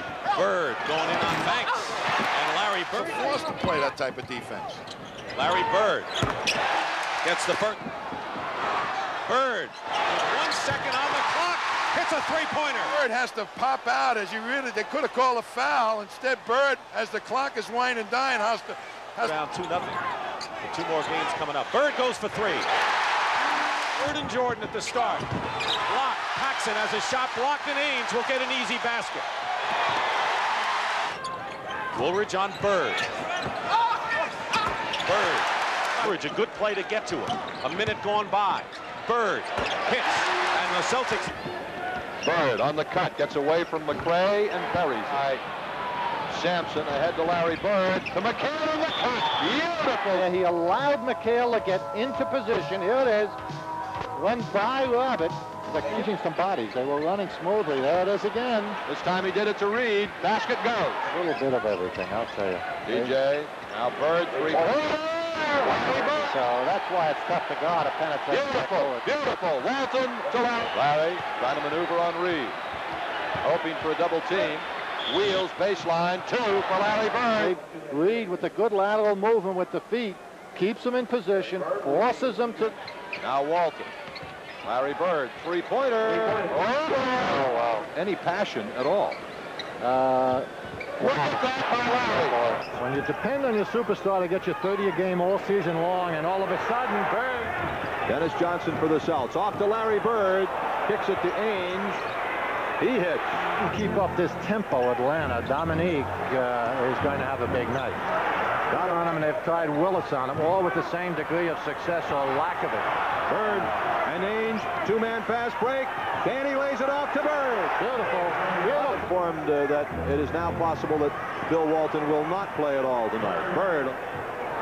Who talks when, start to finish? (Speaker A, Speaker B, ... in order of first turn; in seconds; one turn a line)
Speaker A: 0.3-3.1
Speaker B: 3.0-4.8
Speaker A: 5.3-6.1
Speaker A: 7.2-7.8
Speaker A: 9.3-12.9
Speaker B: 12.8-19.4
Speaker A: 19.2-20.0
Speaker A: 20.6-22.7
Speaker A: 24.0-25.3
Speaker A: 25.9-29.3
Speaker A: 31.9-33.0
Speaker A: 35.0-41.3
Speaker C: 42.2-45.4
Speaker C: 46.3-50.3
Speaker D: 50.1-53.4
Speaker D: 54.1-58.8
Speaker C: 58.9-61.1
Speaker D: 61.1-63.2
Speaker C: 62.9-66.3
Speaker D: 64.5-69.1
Speaker C: 68.3-72.6
Speaker C: 73.4-77.5
Speaker D: 77.3-82.8
Speaker C: 83.2-83.9
Speaker C: 84.6-86.6
Speaker D: 86.0-87.9
Speaker C: 88.0-89.2
Speaker D: 89.8-90.5
Speaker D: 91.0-97.6
Speaker C: 91.0-92.3
Speaker C: 98.1-102.0
Speaker C: 102.8-103.4
Speaker D: 103.6-108.0
Speaker D: 108.7-112.9
Speaker C: 113.3-117.8
Speaker D: 117.8-119.1
Speaker C: 118.6-124.0